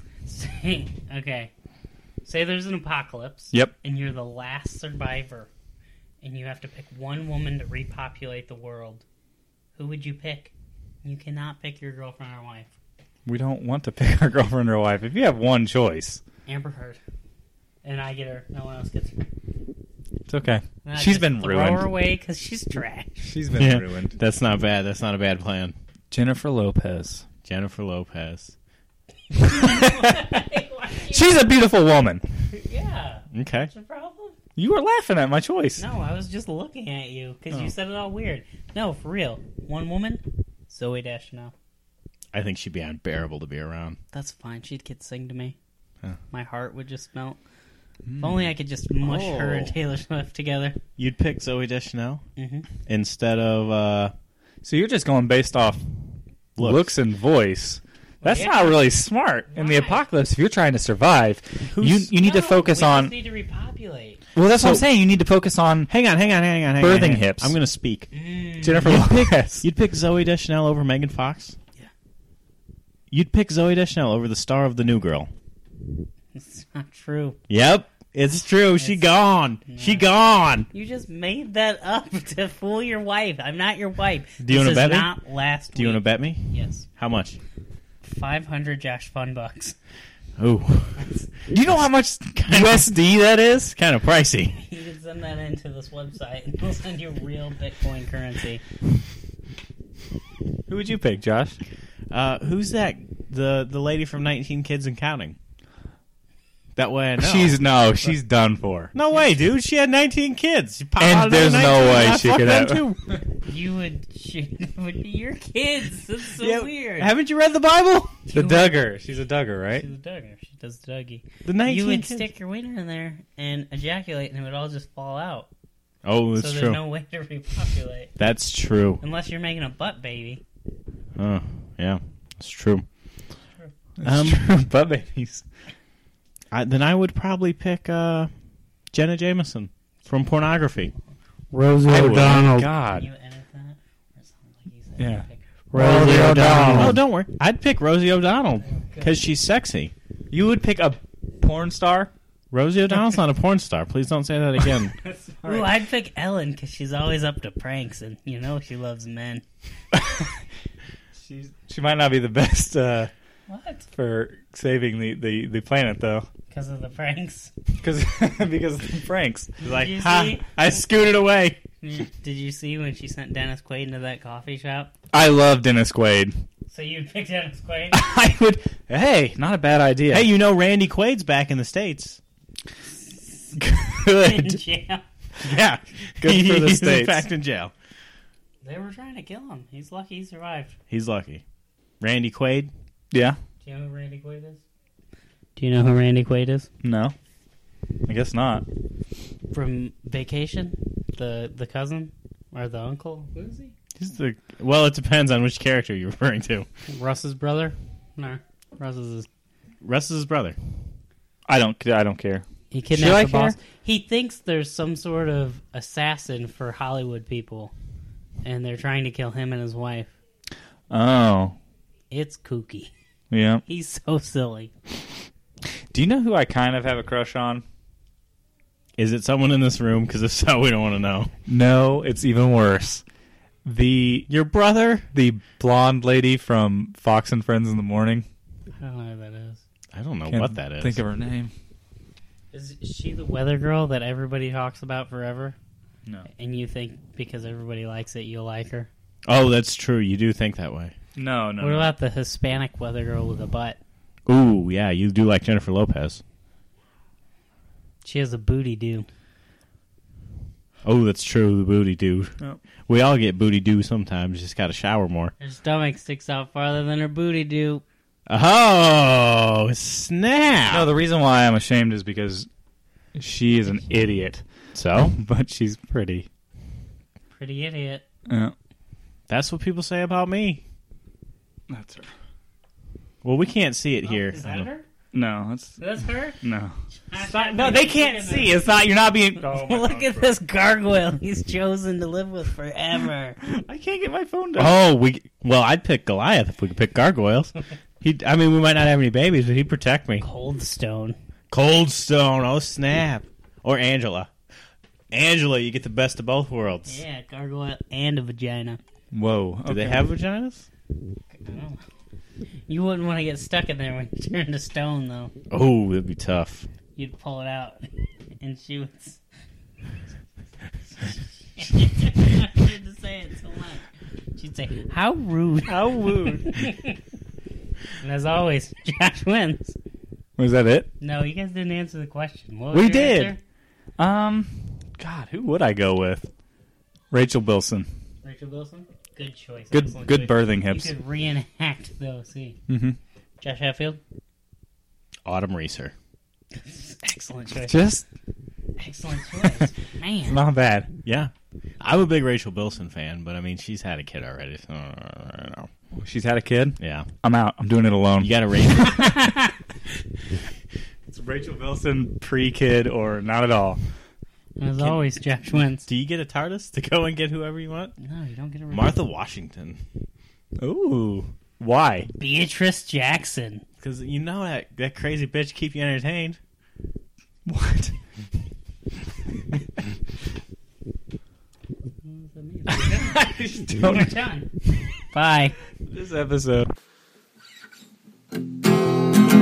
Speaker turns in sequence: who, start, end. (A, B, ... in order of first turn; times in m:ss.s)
0:00.3-0:01.5 A
0:02.2-0:05.5 A
0:06.2-0:09.0 A
0:09.8-0:10.5 A
0:11.0-0:12.7 A
0:13.2-0:16.2 B
0:16.5-0:17.0 A
0:17.8-0:19.3 A
0:20.3-0:21.9 B
0:20.8-0:23.3 A
0:23.2-0:24.2 B
0:23.6-0:25.7 C
0:26.1-0:27.2 B
0:27.5-0:28.5 C
0:29.3-0:31.4 A
0:31.1-0:32.2 B
0:32.5-0:34.4 A
0:33.3-0:33.7 C
0:34.6-0:35.8 B
0:35.8-0:41.5 A
0:42.3-0:44.0 C
0:44.1-0:45.6 A
0:46.3-0:47.4 A
0:48.1-0:48.5 B
0:48.2-0:50.8 A
0:49.0-0:49.7 C
0:51.0-0:52.2 C
0:52.4-0:52.7 A
0:52.8-0:54.1 C
0:54.6-0:55.8 B
0:56.6-0:56.9 C
0:56.6-1:03.1 B
0:58.2-0:58.9 A
0:59.5-1:00.0 A
1:01.7-1:02.1 C
1:02.2-1:04.2 A
1:04.4-1:05.9 B
1:04.6-1:04.8 C
1:05.9-1:08.1 C
1:06.8-1:07.6 B
1:08.1-1:09.0 A
1:08.6-1:09.6 B
1:08.8-1:11.6 C
1:13.1-1:15.3 C
1:16.3-1:17.4 A
1:17.5-1:20.7 C
1:18.8-1:20.1 A
1:20.7-1:26.8 A
1:24.4-1:25.1 C
1:25.8-1:27.4 C
1:28.0-1:29.8 A
1:30.4-1:31.0 C
1:31.5-1:33.8 B
1:32.4-1:32.9 C
1:33.7-1:34.6 C
1:34.6-1:38.6 A
1:40.7-1:41.6 B
1:42.1-1:45.4 C
1:46.8-1:47.6 C
1:47.2-1:48.9 B
1:48.9-1:53.0 C
1:51.0-1:52.8 B
1:53.4-1:57.1 A
1:56.4-1:58.2 C
1:58.3-1:58.9 A
1:58.3-1:59.9 B
1:59.8-2:05.5 A
2:01.5-2:02.2 C
2:06.0-2:06.8 C
2:06.4-2:08.1 A
2:08.2-2:09.0 C
2:09.0-2:10.4 A
2:11.2-2:12.8 C
2:14.0-2:15.4 B
2:14.0-2:14.6 C
2:16.5-2:18.3 C
2:18.9-2:20.9 C
2:21.5-2:27.0 A
2:21.9-2:23.1 B
2:25.0-2:27.0 B
2:25.9-2:29.9 C
2:28.8-2:29.1 A
2:30.3-2:32.1 B
2:32.5-2:34.9 C
2:35.0-2:35.7 B
2:35.4-2:39.4 A
2:39.9-2:40.3 B
2:41.2-2:43.1 B
2:43.5-2:43.9 A
2:43.9-2:46.3 B
2:46.5-2:47.5 A
2:47.8-2:49.5 B
2:49.6-2:51.6 C
2:49.6-2:50.5 A
2:51.8-2:54.9 A
2:55.1-2:56.4 B
2:56.7-2:58.0 A
2:57.9-3:00.3 B
3:00.1-3:02.2 C
3:03.0-3:05.0 A
3:03.6-3:04.6 B
3:05.4-3:07.7 C
3:06.2-3:07.3 B
3:08.6-3:10.8 A
3:10.9-3:11.4 C
3:12.0-3:12.7 C
3:13.1-3:13.4 B
3:13.6-3:14.6 A
3:15.6-3:16.7 A
3:16.8-3:17.2 B
3:18.1-3:18.6 B
3:19.5-3:23.7 A
3:24.0-3:26.7 C
3:26.9-3:29.3 A
3:29.8-3:30.6 C
3:31.5-3:33.6 B
3:32.7-3:37.7 A
3:38.4-3:40.1 A
3:40.9-3:41.6 B
3:42.1-3:42.9 A
3:43.3-3:43.6 B
3:43.7-3:44.7 A
3:45.9-3:47.6 B
3:49.0-3:51.3 C
3:51.5-3:53.0 B
3:53.6-3:54.3 B
3:54.3-3:55.1 C
3:55.1-3:58.3 B
3:58.8-3:59.6 A
3:59.9-4:01.0 C
4:00.3-4:01.5 B
4:02.5-4:05.6 A
4:06.3-4:08.9 A
4:09.3-4:10.9 C
4:11.2-4:11.9 B
4:11.6-4:13.8 A
4:14.3-4:16.2 C
4:18.0-4:19.1 A
4:20.8-4:22.3 C
4:22.9-4:25.3 C
4:25.4-4:27.8 A
4:28.3-4:30.9 C
4:30.7-4:32.5 B
4:33.2-4:34.4 B
4:34.8-4:35.2 C
4:35.0-4:36.3 B
4:37.3-4:38.0 A
4:38.3-4:38.5 B
4:39.3-4:40.6 C
4:41.7-4:42.1 B
4:43.2-4:44.7 C
4:44.0-4:44.8 A
4:45.1-4:45.8 B
4:45.8-4:46.4 A
4:46.4-4:50.3 B
4:47.1-4:48.6 A
4:49.4-4:53.4 A
4:53.4-4:54.8 B
4:54.6-5:00.2 C
5:00.2-5:01.2 A
5:01.5-5:04.3 C
5:05.1-5:07.0 C
5:06.9-5:08.8 A
5:09.1-5:10.1 B
5:09.7-5:10.7 C
5:11.3-5:11.8 A
5:12.7-5:15.3 A
5:15.5-5:16.7 C
5:17.0-5:17.9 A
5:18.4-5:19.2 A
5:21.0-5:27.0 A
5:25.7-5:26.5 B
5:28.0-5:29.8 A
5:30.4-5:30.9 B
5:31.0-5:33.4 A
5:32.7-5:33.4 B
5:34.0-5:36.3 B
5:37.1-5:37.9 B
5:38.2-5:42.6 A
5:39.7-5:40.9 B
5:42.7-5:43.0 B
5:43.4-5:44.0 A
5:45.3-5:45.9 C
5:46.6-5:47.8 A
5:47.6-5:48.1 B
5:48.8-5:50.4 A
5:50.3-5:50.9 B
5:51.0-5:55.7 C
5:56.0-5:58.3 B
5:56.8-5:57.1 C
5:58.2-5:59.2 C
5:58.8-5:59.5 A
6:01.1-6:03.8 B
6:04.6-6:05.9 A
6:05.9-6:08.0 C
6:08.0-6:09.0 A
6:08.7-6:09.8 C
6:10.6-6:12.1 B
6:12.2-6:13.6 A
6:13.8-6:16.4 C
6:17.4-6:18.0 B
6:22.0-6:24.5 A
6:22.7-6:24.1 B
6:25.1-6:25.6 A
6:25.9-6:26.7 B